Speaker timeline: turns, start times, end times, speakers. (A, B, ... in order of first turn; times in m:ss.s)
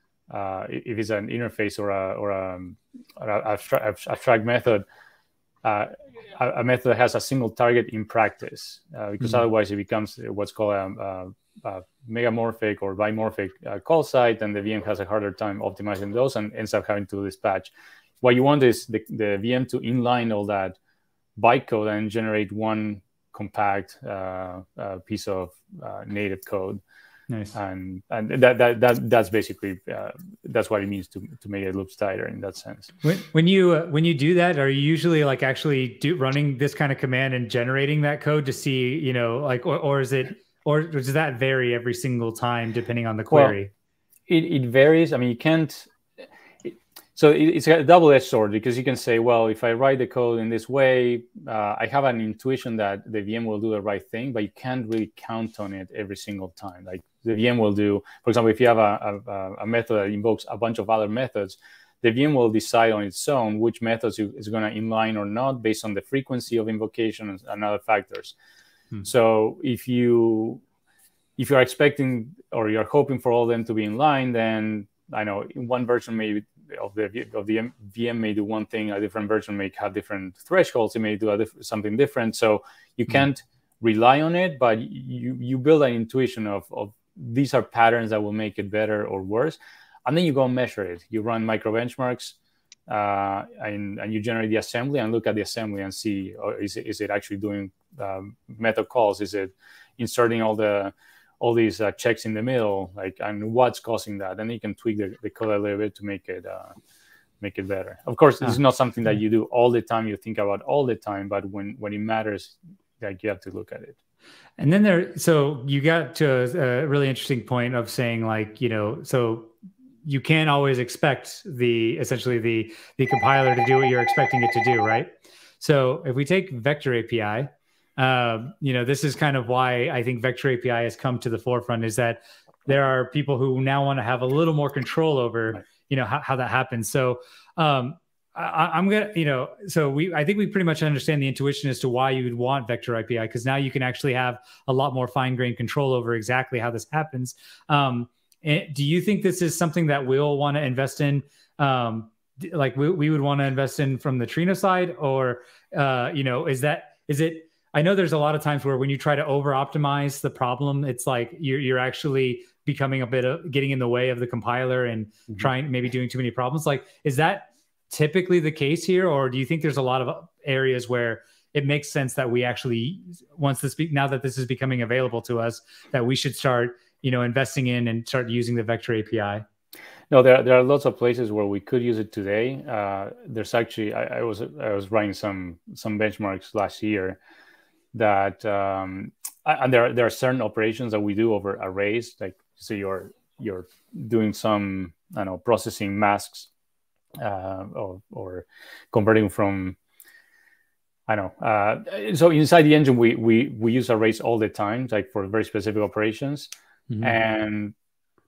0:00.3-0:04.8 A
0:05.6-0:20.8 A
0:21.4-0:26.8 A
0:27.3-0:27.5 B
0:27.5-0:32.9 A
0:33.0-0:43.7 B
0:43.3-0:43.6 A
0:44.3-0:45.9 A
0:46.6-1:08.3 A
1:09.0-1:10.6 A
1:11.4-1:32.4 A
1:32.9-1:46.7 A
1:47.4-1:54.0 A
1:54.6-1:59.5 B
2:00.0-2:05.1 B
2:05.6-2:59.4 B
3:00.1-3:07.2 A
3:07.9-3:16.5 A
3:17.2-3:19.8 A
3:21.1-3:26.5 A
3:26.9-3:27.2 B
3:27.0-3:27.7 A